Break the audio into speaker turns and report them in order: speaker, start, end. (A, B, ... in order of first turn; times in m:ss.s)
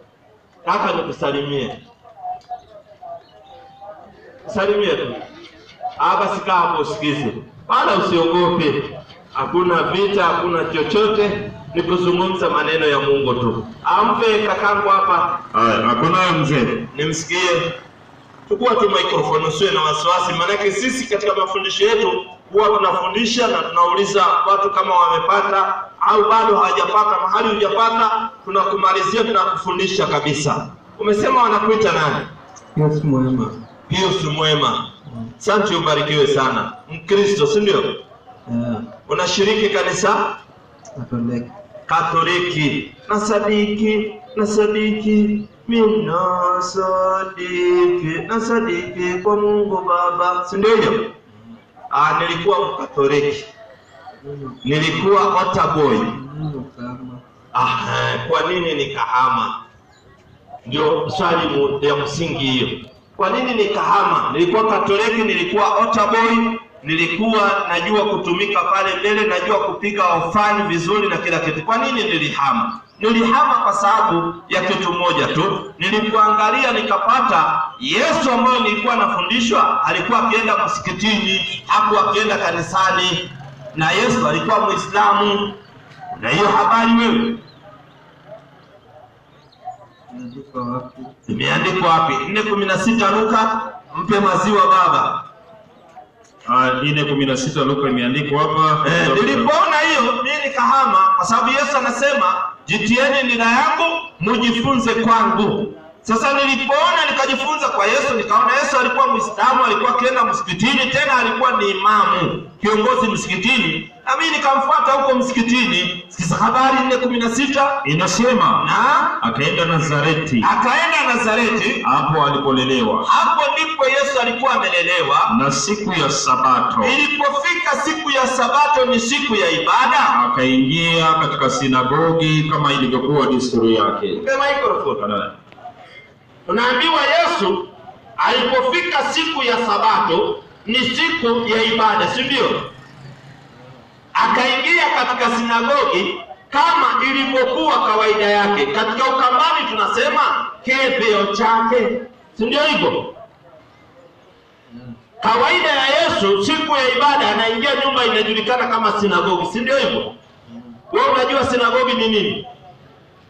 0:00.6-0:01.8 A
0:04.4-0:05.2 A
0:06.0-0:15.4 A
0:15.5-0:16.9 B
0:16.9-0:17.8 A
0:18.5-0:32.3 A
0:32.8-0:33.6 C
0:33.9-0:34.9 A
0:35.4-0:38.0 A
0:38.5-0:38.9 C
0:39.1-0:40.4 A
0:41.0-0:41.5 C
0:41.9-0:51.1 A
0:51.9-0:53.5 A
0:54.2-0:54.6 C
0:54.6-0:56.1 A
0:56.0-0:57.2 C
0:57.5-0:59.5 A
1:00.6-1:25.6 A
1:26.1-1:27.4 A
1:30.1-1:31.1 C
1:31.3-1:35.2 A
1:36.5-1:39.5 B
1:38.8-1:57.8 A
1:57.8-1:58.7 B
1:58.6-1:59.2 A
1:59.2-2:00.5 B
2:00.4-2:01.8 A
2:01.8-2:03.1 B
2:03.0-2:05.3 A
2:05.3-2:07.0 B
2:06.8-2:10.2 A
2:10.1-2:14.2 B
2:14.2-2:15.0 A
2:15.0-2:15.4 B
2:16.5-2:17.7 A
2:18.2-2:22.7 A
2:24.1-2:33.1 A
2:34.7-2:35.0 C
2:35.2-2:40.1 A
2:40.5-2:40.8 C
2:40.9-2:42.5 A